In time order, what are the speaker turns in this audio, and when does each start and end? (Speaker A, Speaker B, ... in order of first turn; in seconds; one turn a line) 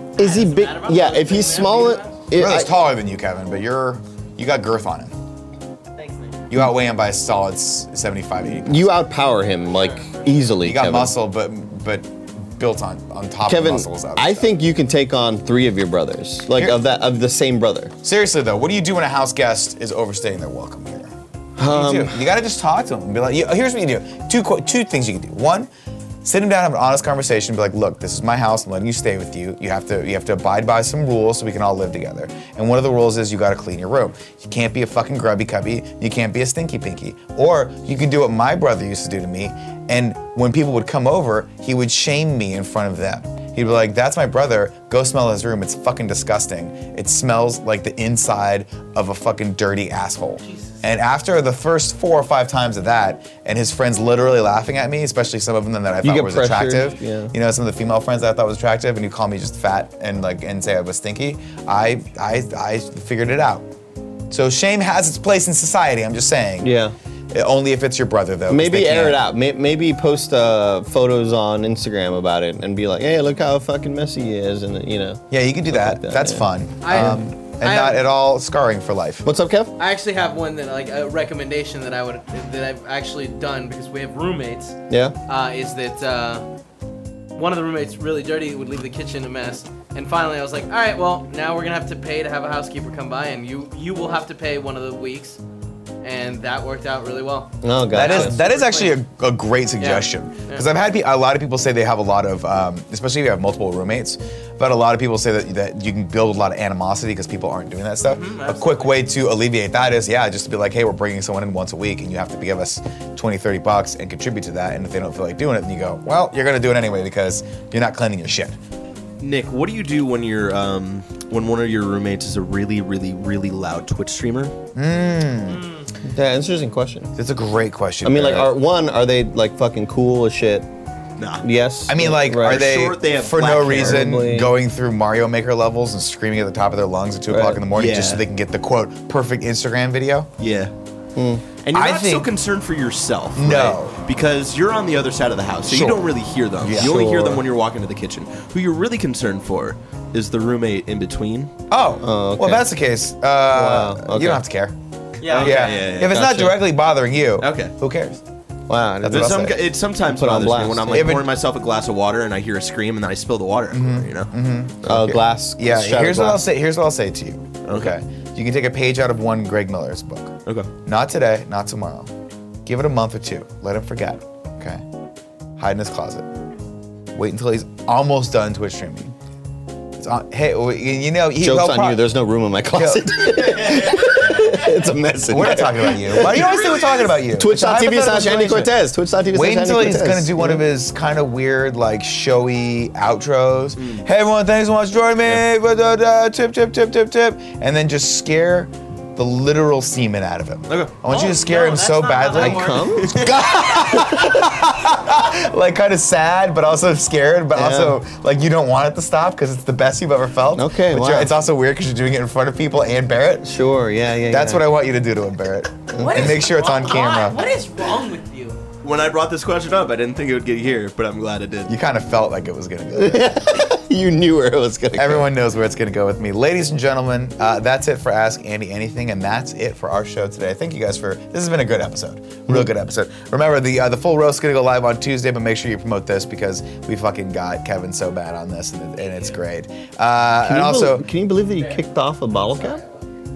Speaker A: 0.2-2.7
Speaker B: 0.2-2.2
Speaker C: 2.3-5.1
Speaker B: 6.0-6.4
Speaker C: 6.5-9.0
Speaker A: 8.5-11.1
Speaker B: 9.7-10.5
Speaker C: 10.6-14.5
Speaker A: 13.5-17.9
Speaker C: 18.0-25.7
Speaker A: 21.6-22.2
Speaker C: 26.2-63.7
Speaker B: 50.4-50.7
Speaker A: 56.0-57.3
Speaker C: 64.3-66.7
Speaker A: 66.6-66.9
Speaker C: 67.3-69.2
Speaker A: 68.5-77.1
Speaker C: 75.3-79.3
Speaker B: 76.8-78.0
Speaker A: 79.2-79.7
Speaker B: 79.8-86.5
Speaker A: 84.9-85.1
Speaker B: 87.3-95.4
Speaker B: 96.0-99.0
Speaker A: 97.6-98.4
Speaker C: 97.9-118.5
Speaker B: 99.8-100.7
Speaker B: 108.1-109.0
Speaker D: 119.2-124.5
Speaker C: 124.7-125.6
Speaker B: 125.5-125.8
Speaker A: 126.1-127.1
Speaker C: 127.2-128.5
Speaker A: 128.0-130.7
Speaker D: 131.2-131.4
Speaker A: 131.4-132.8
Speaker C: 131.9-140.3
Speaker D: 132.4-134.0
Speaker A: 133.3-134.5
Speaker A: 137.3-137.6
Speaker D: 137.7-138.2
Speaker D: 140.4-140.7
Speaker A: 141.2-141.4
Speaker D: 141.6-151.5
Speaker C: 141.7-142.3
Speaker C: 143.3-144.1
Speaker C: 145.7-146.0
Speaker C: 146.6-146.9
Speaker A: 146.8-147.4
Speaker C: 151.7-154.8
Speaker A: 152.0-152.7
Speaker A: 153.5-154.4
Speaker B: 155.2-155.7
Speaker D: 155.2-156.1
Speaker C: 155.3-158.2
Speaker A: 156.1-156.6
Speaker D: 157.4-157.7
Speaker A: 158.7-161.2
Speaker C: 159.0-159.5
Speaker D: 159.1-164.3
Speaker C: 160.9-161.3
Speaker C: 163.7-172.1
Speaker A: 164.8-166.4
Speaker D: 167.6-167.9
Speaker D: 170.4-170.7
Speaker C: 172.6-174.8
Speaker C: 175.6-176.3
Speaker C: 177.1-179.1
Speaker C: 179.9-182.0
Speaker A: 181.4-186.7
Speaker C: 182.7-184.7
Speaker C: 185.3-188.8
Speaker D: 186.1-187.1
Speaker A: 187.3-190.6
Speaker C: 189.3-213.5
Speaker D: 193.8-194.1
Speaker D: 200.7-200.9
Speaker B: 201.1-203.0
Speaker A: 202.3-204.4
Speaker A: 207.5-208.0
Speaker A: 210.6-211.3
Speaker A: 213.4-214.6
Speaker C: 214.2-217.4
Speaker B: 215.9-218.6
Speaker D: 218.8-221.7
Speaker C: 221.7-223.7
Speaker A: 222.9-225.3
Speaker C: 224.9-241.0
Speaker A: 240.4-242.8